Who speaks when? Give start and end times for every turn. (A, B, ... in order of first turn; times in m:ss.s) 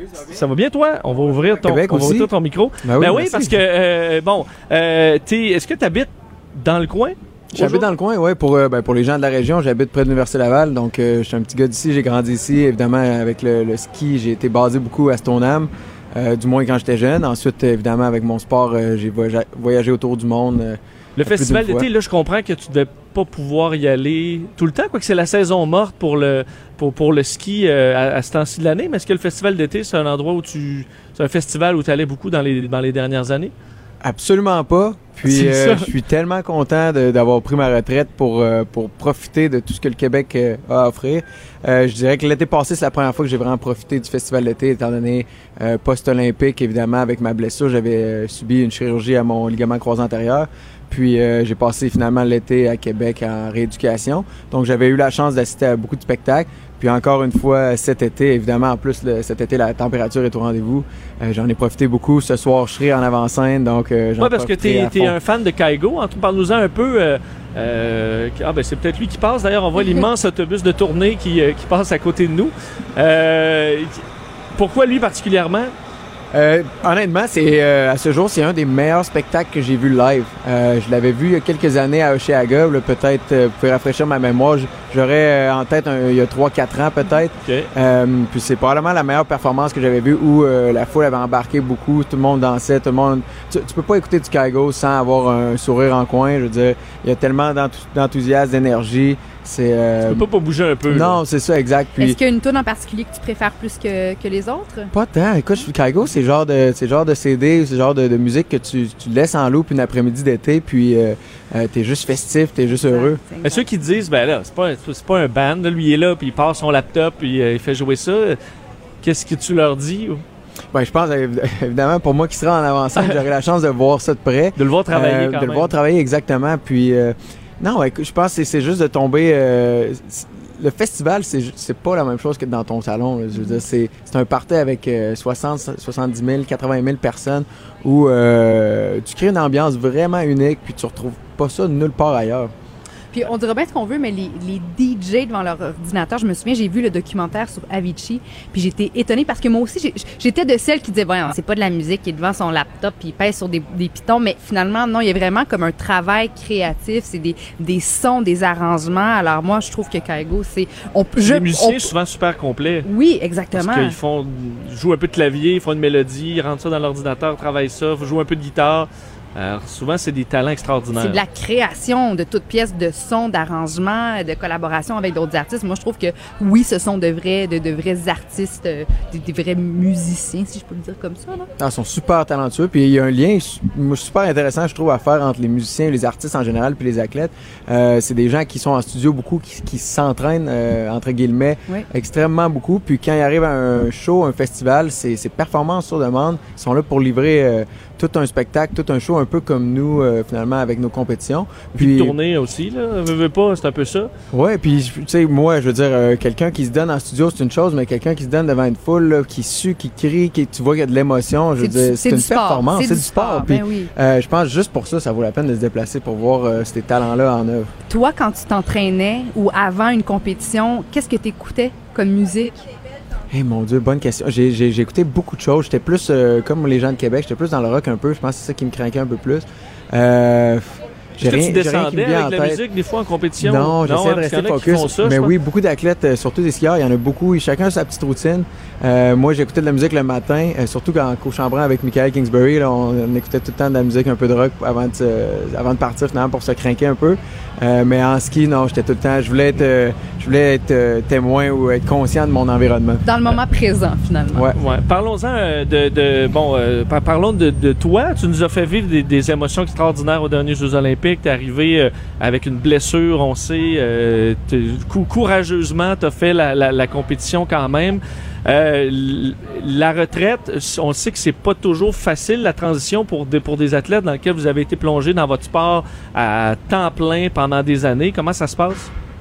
0:00.2-0:07.9 A
0:01.6-0:02.3 B
0:02.8-0:03.6 B
0:07.6-0:21.9 B
0:21.2-0:33.5 A
0:34.0-1:05.2 B
0:35.2-0:35.9 A
1:04.2-1:14.0 A
1:14.6-1:15.7 A
1:16.3-1:40.2 B
1:27.4-1:27.7 A
1:40.1-1:41.2 A
1:40.9-1:42.2 B
1:42.0-1:44.9 C
1:44.9-1:53.2 B
1:52.8-1:53.7 C
1:53.4-1:58.4 A
1:59.0-2:00.2 A
2:00.7-2:22.5 B
2:04.6-2:05.7 A
2:23.1-2:41.9 C
2:41.2-2:42.9 A
2:42.9-2:44.0 C
2:43.5-2:51.2 A
2:51.0-3:01.5 C
3:01.6-3:22.2 B
3:21.7-3:24.1 A
3:24.3-3:37.7 B
3:31.6-3:33.9 C
3:37.9-3:42.6 C
3:43.3-3:52.6 B
3:51.2-3:55.3 A
3:53.4-4:13.1 B
4:13.0-4:14.5 C
4:14.6-4:38.9 A